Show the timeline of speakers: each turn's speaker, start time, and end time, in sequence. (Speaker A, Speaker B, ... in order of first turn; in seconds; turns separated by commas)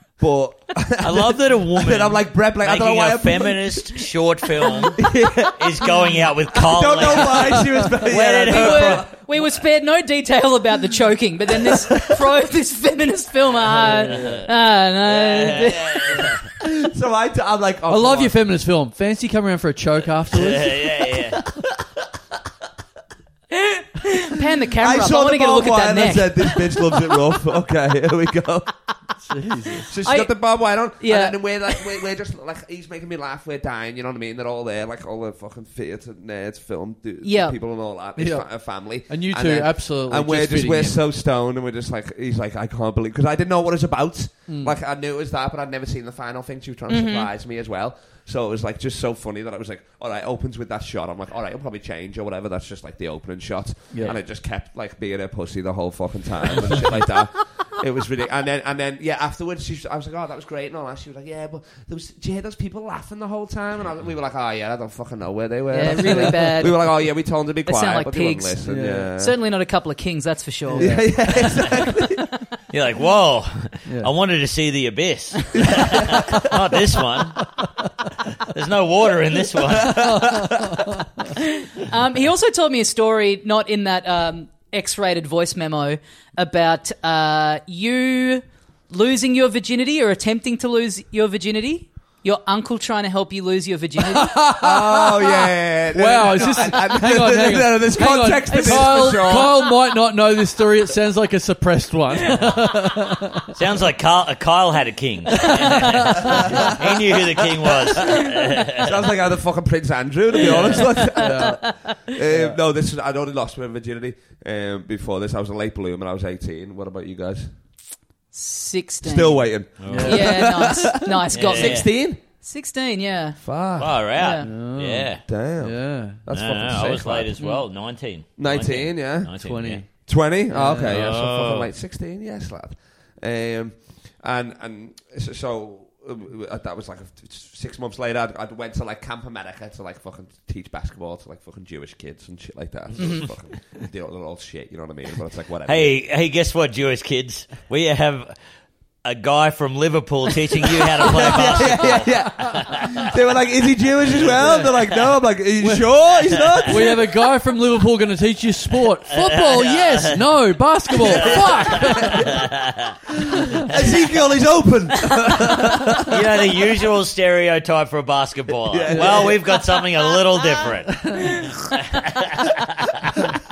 Speaker A: 0.2-4.0, Speaker B: 1.0-9.1, Speaker A: 4.6-9.1, Speaker C: 8.4-16.3, Speaker D: 13.7-14.4, Speaker B: 13.9-14.5, Speaker B: 15.0-16.4, Speaker A: 16.6-18.4, Speaker D: 17.9-21.1, Speaker B: 20.3-21.4, Speaker C: 23.5-27.0, Speaker A: 24.8-28.7, Speaker D: 29.2-29.9, Speaker A: 29.9-69.3, Speaker C: 30.0-30.4, Speaker C: 31.0-31.8, Speaker C: 37.2-37.5, Speaker D: 38.2-41.0, Speaker D: 44.5-44.8, Speaker C: 46.9-47.3, Speaker D: 53.9-54.2, Speaker C: 65.7-66.9, Speaker D: 65.8-66.4, Speaker C: 67.7-68.6, Speaker D: 68.6-69.1, Speaker C: 69.2-72.2, Speaker D: 70.7-71.2, Speaker A: 70.8-72.2, Speaker B: 72.7-77.5, Speaker D: 73.8-74.1, Speaker B: 78.4-80.4, Speaker A: 79.8-80.7, Speaker D: 79.8-81.3, Speaker C: 81.3-94.4, Speaker D: 94.1-103.5, Speaker A: 94.6-99.6, Speaker C: 98.5-99.5, Speaker B: 103.5-109.0, Speaker D: 105.6-106.7, Speaker A: 106.3-106.7, Speaker A: 108.2-117.5, Speaker B: 110.5-110.8, Speaker D: 110.6-111.6, Speaker C: 110.6-112.0, Speaker D: 112.2-112.6, Speaker C: 118.3-123.4, Speaker A: 119.0-122.2, Speaker B: 119.8-120.3, Speaker D: 119.9-120.5, Speaker B: 121.3-121.9, Speaker A: 123.4-124.0, Speaker B: 123.8-125.2, Speaker C: 124.1-124.5, Speaker D: 124.4-126.2, Speaker A: 125.2-127.3, Speaker B: 126.3-129.8, Speaker A: 128.4-129.3, Speaker D: 129.4-129.9, Speaker A: 129.9-145.9, Speaker D: 130.5-131.0, Speaker B: 130.8-131.7, Speaker C: 143.0-143.3, Speaker B: 145.7-148.3, Speaker B: 149.0-153.1, Speaker A: 150.9-157.0, Speaker B: 154.1-154.9, Speaker D: 154.2-154.8, Speaker D: 155.6-155.9, Speaker B: 156.1-157.0, Speaker D: 156.6-162.4, Speaker B: 159.1-160.2, Speaker B: 160.9-162.9, Speaker A: 161.1-162.3, Speaker D: 163.4-163.6, Speaker A: 163.6-166.2, Speaker B: 166.1-173.1, Speaker A: 168.7-169.4, Speaker D: 168.9-169.3